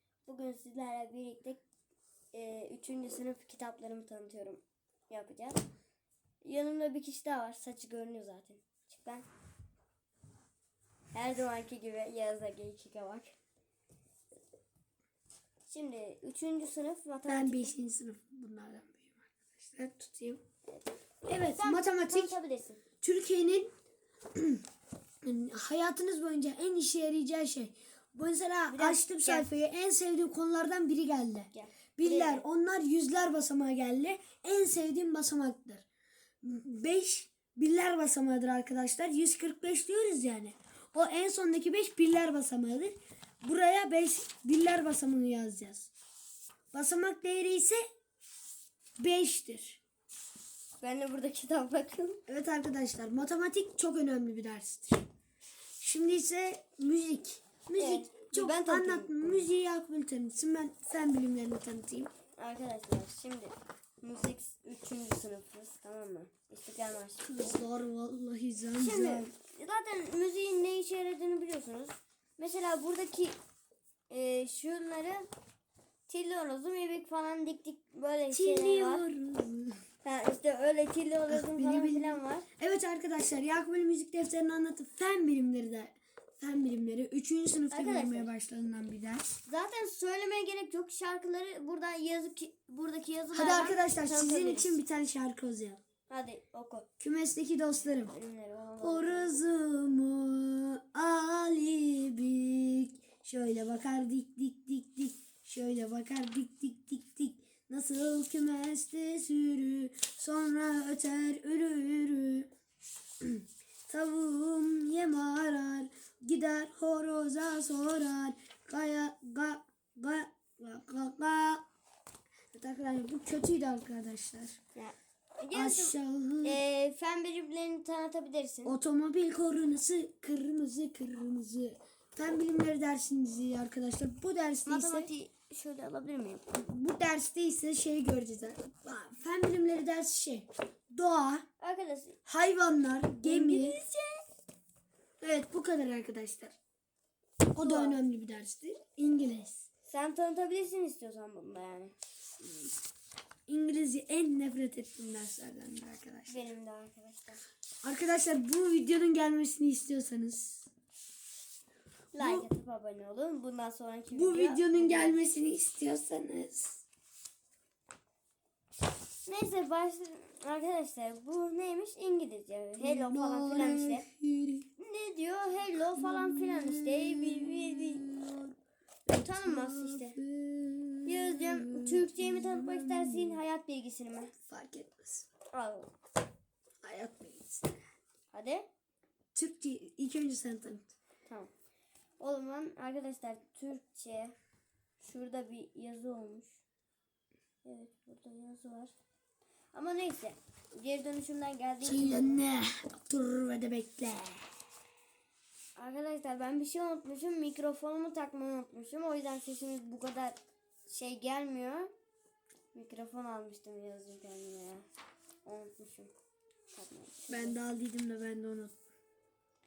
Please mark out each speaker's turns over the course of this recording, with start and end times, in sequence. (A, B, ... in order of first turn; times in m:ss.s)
0:00.2-0:01.6 A
0:02.3-0:05.6 A
0:06.4-0:09.2 A
0:11.1-0:13.3 A
0:15.7-0:17.7 A
0:17.3-0:20.4 B
0:21.2-0:22.4 B
0:21.4-0:22.8 A
0:23.0-0:23.7 B
0:24.3-0:24.6 B
0:25.2-0:35.8 B
0:28.7-0:29.5 A
0:31.5-0:32.4 A
0:36.4-0:45.9 B
0:46.7-0:47.8 B
0:49.0-0:49.8 B
0:50.8-0:52.2 A
0:52.3-0:55.0 B
0:55.8-1:02.1 B
0:57.8-0:59.5 A
1:02.4-1:07.6 A
1:07.2-1:09.3 B
1:08.7-1:13.3 A
1:14.1-1:15.2 A
1:16.1-1:19.0 A
1:18.3-1:19.8 B
1:20.0-1:22.5 A
1:21.3-1:29.2 B
1:27.7-1:28.3 A
1:29.4-1:34.8 A
1:33.3-1:35.8 B
1:36.1-1:36.9 A
1:37.0-1:38.1 B
1:38.0-1:39.4 A
1:38.8-1:52.5 B
1:53.2-2:01.6 B
2:02.5-2:04.6 B
2:04.7-2:08.8 A
2:05.5-2:06.6 B
2:08.6-2:15.1 B
2:14.6-2:16.5 A
2:16.5-2:21.4 B
2:21.6-2:22.2 A
2:22.2-2:23.8 B
2:23.2-2:24.2 A
2:25.2-2:26.6 B
2:27.5-2:29.6 B
2:27.6-2:28.0 A
2:29.9-2:31.9 A
2:33.5-2:36.5 B
2:36.3-2:37.4 A
2:37.8-2:40.7 B
2:42.1-2:45.2 A
2:42.2-2:42.5 B
2:44.1-2:46.8 B
2:49.2-2:54.0 A
2:52.8-2:54.7 B
2:54.8-2:58.1 A
2:55.9-2:58.5 B
2:59.1-3:03.4 B
2:59.1-3:00.2 A
3:01.0-3:04.3 A
3:04.5-3:05.2 B
3:05.5-3:05.9 A
3:06.8-3:07.8 B
3:08.3-3:08.6 A
3:09.3-3:10.9 B
3:12.2-3:14.3 A
3:15.0-3:16.6 A
3:17.6-3:18.9 A
3:19.7-3:22.4 A
3:21.8-3:24.4 B
3:25.8-3:31.9 A
3:32.7-3:34.8 A
3:35.4-3:36.1 A
3:36.7-3:37.6 A
3:37.3-3:38.7 B